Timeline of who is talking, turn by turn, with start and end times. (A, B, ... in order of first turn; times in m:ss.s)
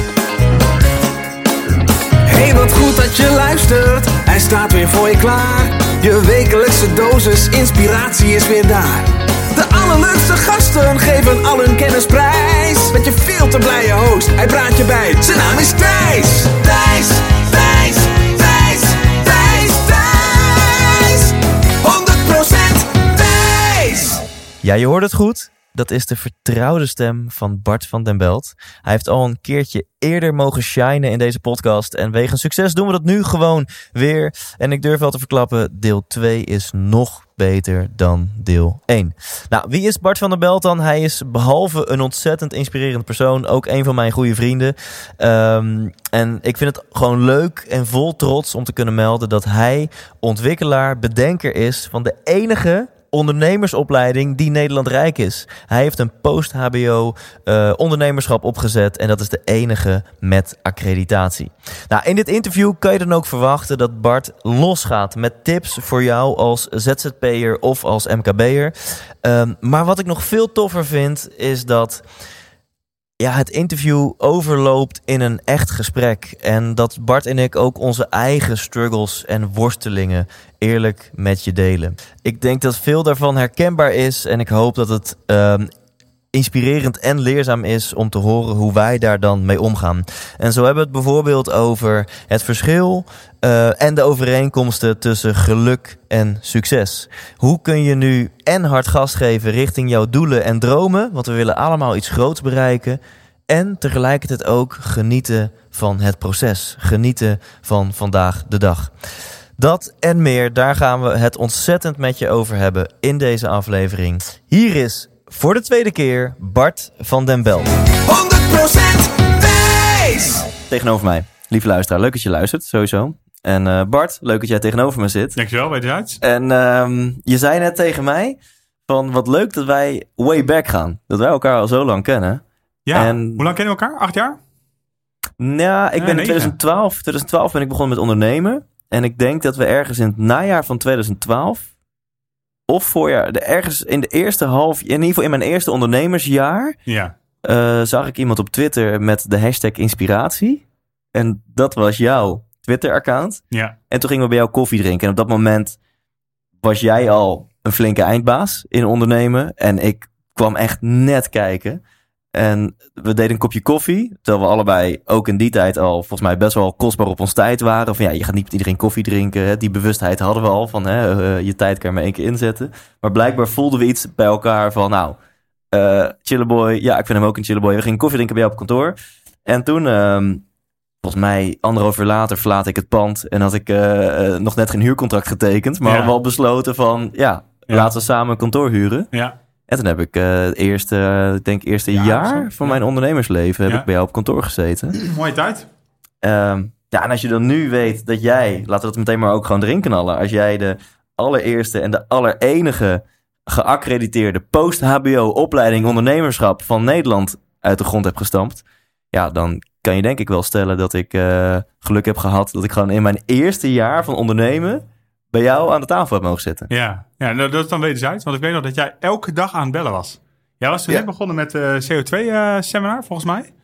0:02.3-0:24.2 A
0:24.6-1:12.0 B
1:13.2-1:25.7 B
1:26.3-1:49.0 B
1:49.6-1:57.7 B
1:58.0-2:00.5 A
2:00.7-2:05.4 B
2:05.4-2:06.2 C
2:06.2-2:13.5 B
2:12.9-2:14.4 C
2:15.4-2:21.7 B
2:16.0-2:16.6 C
2:22.7-2:26.8 B
2:26.9-2:27.2 C
2:27.4-2:35.8 B
2:33.5-2:33.8 C
2:36.6-2:41.8 B
2:42.3-2:55.2 B
2:55.7-3:00.4 B
3:01.0-3:09.1 B
3:05.8-3:06.1 C
3:09.7-3:15.0 B
3:11.9-3:12.8 C
3:15.0-3:15.7 C
3:16.2-3:36.7 B
3:36.7-3:43.5 C